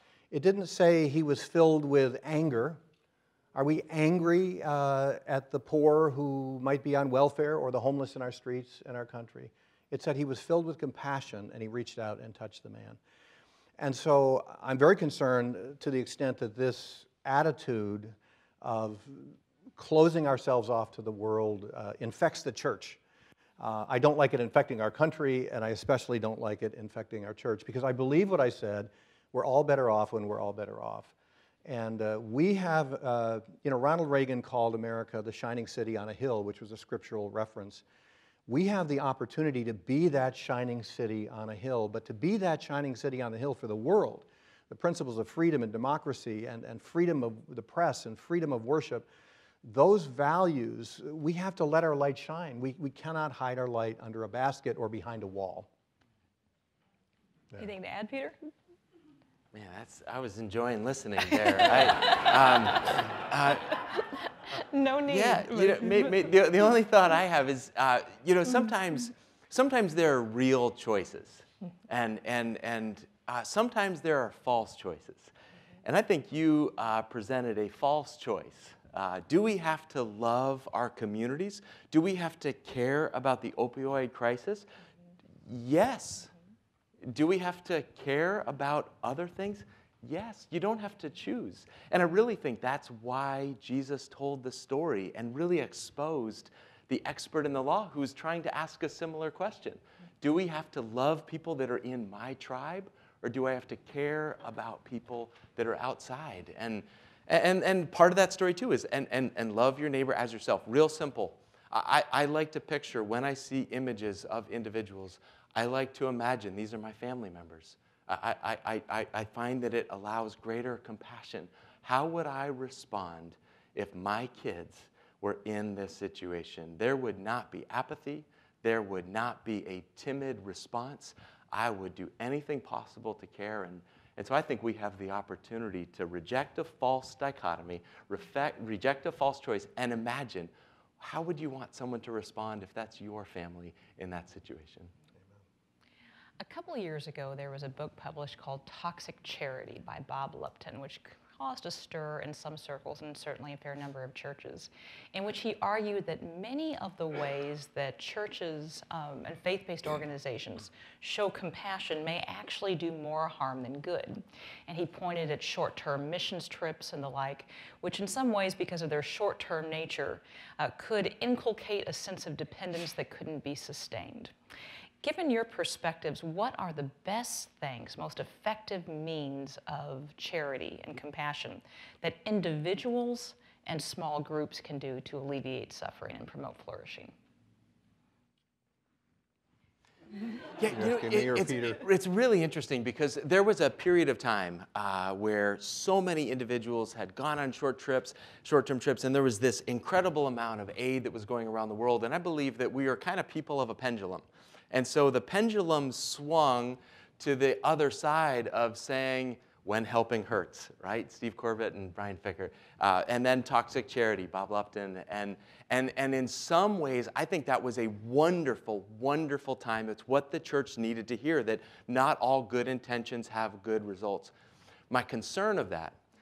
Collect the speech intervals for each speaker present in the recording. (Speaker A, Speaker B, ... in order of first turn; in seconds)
Speaker A: 0.3-2.8, 3.5-13.0, 13.8-23.0, 23.6-31.1, 31.6-37.8, 38.5-49.1, 49.6-55.7, 190.7-191.8
Speaker B: 57.5-58.4, 64.5-65.9, 146.4-174.3, 175.0-187.1
Speaker C: 59.5-63.7, 65.1-75.3, 75.8-84.7, 85.4-86.3, 87.1-144.9, 190.6-224.3, 224.9-226.0